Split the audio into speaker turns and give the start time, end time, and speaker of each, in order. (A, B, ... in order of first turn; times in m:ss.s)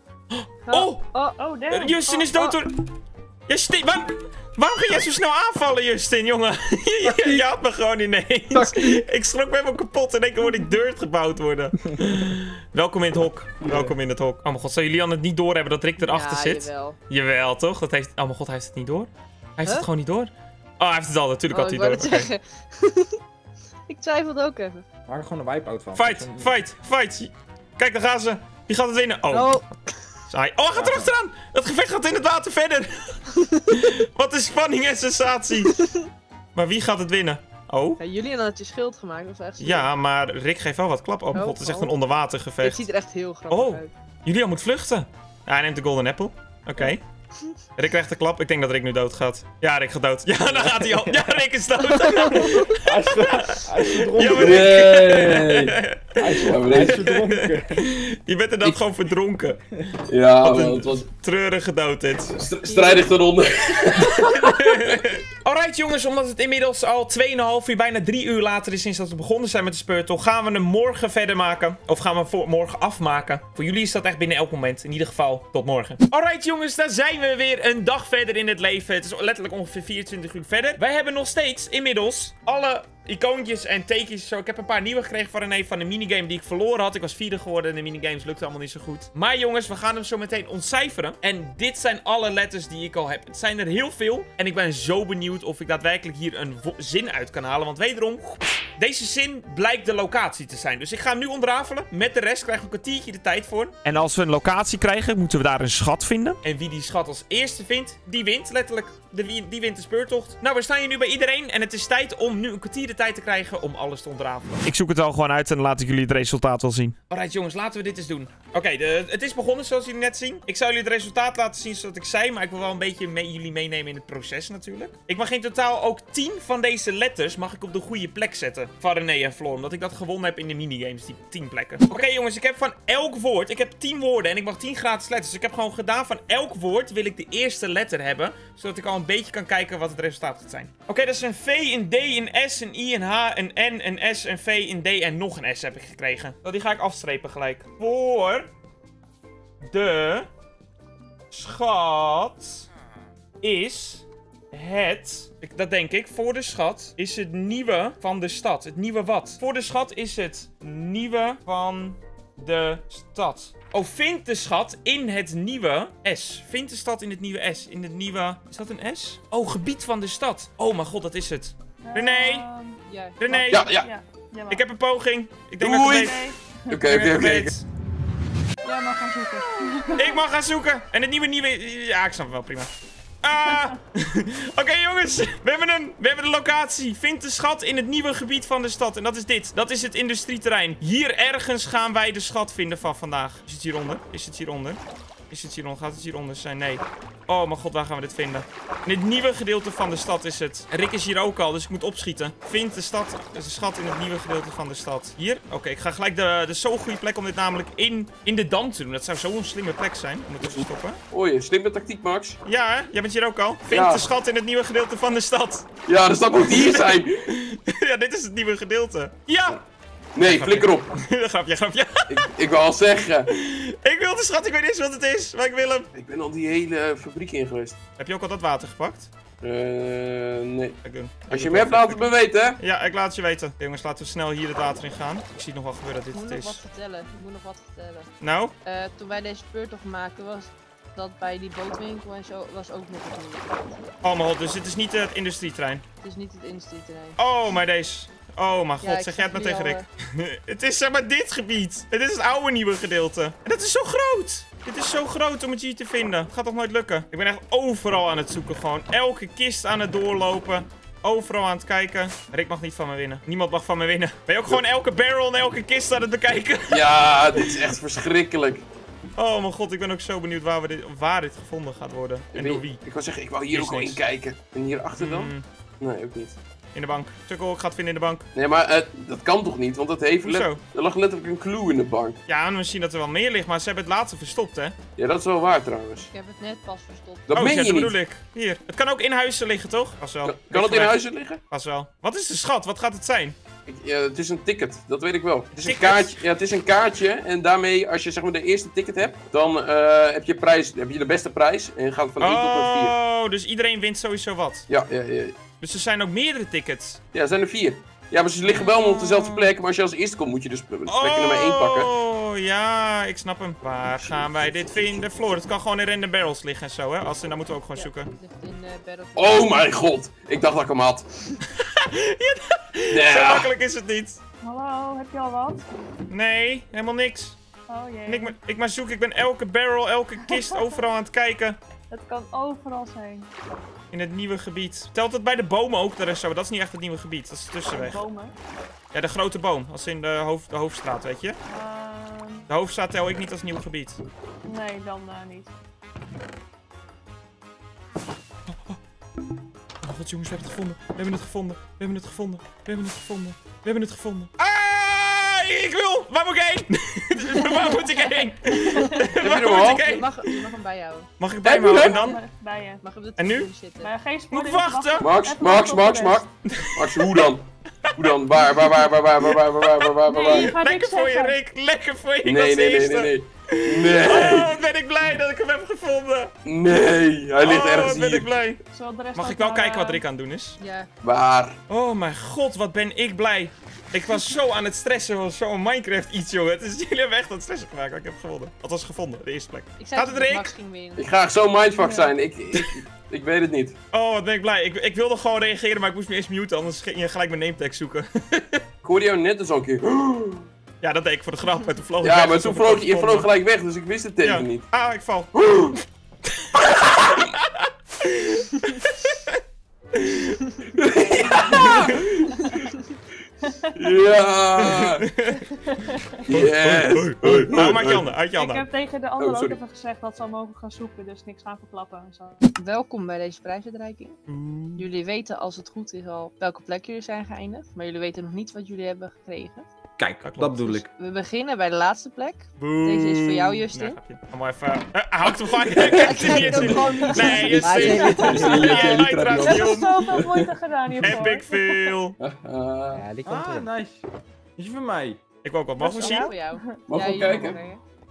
0:00.3-0:01.0 A
0:00.7-0:01.4 B
0:01.4-0:01.9 C
0:01.7-0:02.8 A
0:02.1-0:02.6 B
0:03.5-0:22.3 A
0:07.1-0:07.4 D
0:16.0-0:17.0 B
0:21.5-0:23.2 B
0:23.9-0:24.8 B
0:25.1-0:26.5 D
0:25.9-0:29.6 A
0:29.3-0:30.0 B
0:30.3-0:35.8 A
0:30.7-0:31.1 D
0:35.7-0:36.0 B
0:36.5-0:38.0 A
0:38.0-0:39.9 B
0:39.6-0:42.9 A
0:41.3-0:41.9 B
0:42.6-0:43.9 B
0:43.5-0:47.0 A
0:46.8-0:47.6 B
0:47.8-0:59.6 A
0:52.8-0:55.3 D
0:54.4-0:55.8 E
0:56.1-0:57.9 D
0:56.4-0:56.9 E
1:00.1-1:01.0 E
1:00.4-1:02.4 A
1:02.3-1:04.8 E
1:02.7-1:03.2 B
1:04.0-2:28.5 A
2:29.6-2:30.3 A
2:31.3-2:32.6 A
2:33.4-2:52.4 A
2:51.8-2:54.6 C
2:52.8-2:53.4 B
2:53.2-2:53.7 A
2:53.5-2:53.9 E
2:54.5-2:56.2 A
2:55.6-2:56.1 E
2:55.8-2:56.5 C
2:56.7-2:57.5 E
2:56.8-2:57.6 A
2:58.6-3:00.2 C
2:59.9-3:02.7 A
3:03.2-3:31.0 A
3:30.4-3:32.4 E
3:32.4-3:35.7 A
3:33.7-3:34.0 E
3:35.9-3:37.1 E
3:36.5-3:39.6 A
3:40.2-3:40.9 E
3:40.2-3:42.2 A
3:42.1-3:43.3 E
3:43.3-3:45.9 A
3:45.9-3:47.8 E
3:48.0-3:49.1 A
3:49.4-3:50.8 E
3:50.8-3:56.6 A
3:51.3-3:52.6 E
3:56.1-3:58.1 B
3:58.2-3:58.5 A
3:58.6-4:03.8 B
4:04.0-4:05.8 A
4:06.0-4:07.2 B
4:07.2-4:27.4 A
4:08.8-4:09.8 B
4:26.7-4:28.6 E
4:29.2-4:32.8 A
4:32.3-4:36.4 E
4:33.5-4:34.0 A
4:35.0-4:35.4 A
4:36.7-4:38.3 A
4:38.3-4:42.2 E
4:40.2-4:40.6 A
4:42.3-4:44.8 A
4:45.0-4:46.1 E
4:46.1-4:47.4 B
4:47.3-4:47.9 E
4:47.3-4:53.4 A
4:50.2-4:51.4 E
4:53.7-5:02.9 E
4:55.5-4:56.2 A
5:02.2-5:04.7 A
5:04.7-5:05.4 E
5:05.6-5:07.0 A
5:07.1-5:11.9 E
5:08.5-5:09.5 A
5:10.9-5:18.1 A
5:13.9-5:15.1 E
5:17.8-5:19.8 B
5:19.2-5:21.0 E
5:21.6-5:24.2 A
5:22.9-5:23.5 E
5:24.4-5:25.7 C
5:26.1-5:27.4 A
5:27.7-5:28.3 C
5:28.1-5:31.6 A
5:30.3-5:30.6 C
5:31.9-5:33.3 C
5:33.9-5:38.0 A
5:37.7-5:38.3 C
5:38.9-5:41.4 A
5:41.5-5:42.5 C
5:42.5-5:44.0 A
5:44.4-5:45.5 C
5:48.5-5:48.8 A
5:49.8-6:00.3 A
5:57.3-5:58.0 C
5:58.7-5:59.0 C
5:58.8-6:01.1 B
5:59.2-6:00.0 E
6:01.2-6:02.2 A
6:01.4-6:02.0 E
6:01.6-6:02.8 C
6:02.8-6:03.9 B
6:03.2-6:03.5 A
6:03.8-6:06.2 C
6:04.3-6:05.1 A
6:05.0-6:10.6 E
6:06.5-6:07.1 A
6:09.7-6:16.3 A
6:10.0-6:11.4 C
6:12.2-6:14.6 E
6:16.4-6:18.4 E
6:17.4-6:18.6 A
6:18.7-6:20.0 C
6:19.1-6:20.6 A
6:20.6-6:20.9 B
6:21.0-6:21.6 E
6:21.7-6:30.5 A
6:29.8-6:31.1 B
6:31.0-6:33.8 E
6:31.8-6:32.1 C
6:33.9-6:38.6 A
6:38.8-6:40.5 E
6:40.8-6:43.3 A
6:42.0-6:44.7 E
6:44.2-6:45.7 A
6:45.4-6:45.7 E
6:46.4-6:49.4 A
6:49.9-6:50.5 A
6:50.8-6:52.3 E
6:51.5-6:52.0 A
6:53.8-6:55.1 E
6:54.6-6:55.4 A
6:55.7-6:56.0 C
6:56.3-6:58.1 E
6:56.3-6:58.7 A
6:58.4-7:02.4 C
6:59.2-6:59.6 E
7:02.6-7:04.2 B
7:04.3-7:04.9 A
7:04.8-7:09.6 B
7:10.0-7:10.9 D
7:10.2-7:10.8 A
7:11.0-7:14.0 B
7:12.6-7:20.2 A
7:15.7-7:20.4 E
7:15.9-7:18.6 B
7:16.1-7:18.8 F
7:18.7-7:22.0 C
7:21.0-7:22.2 A
7:22.2-7:23.1 E
7:22.9-7:23.7 F
7:23.2-7:25.2 D
7:25.4-7:26.3 A
7:25.8-7:26.6 C
7:25.8-7:27.8 B
7:26.9-7:27.6 E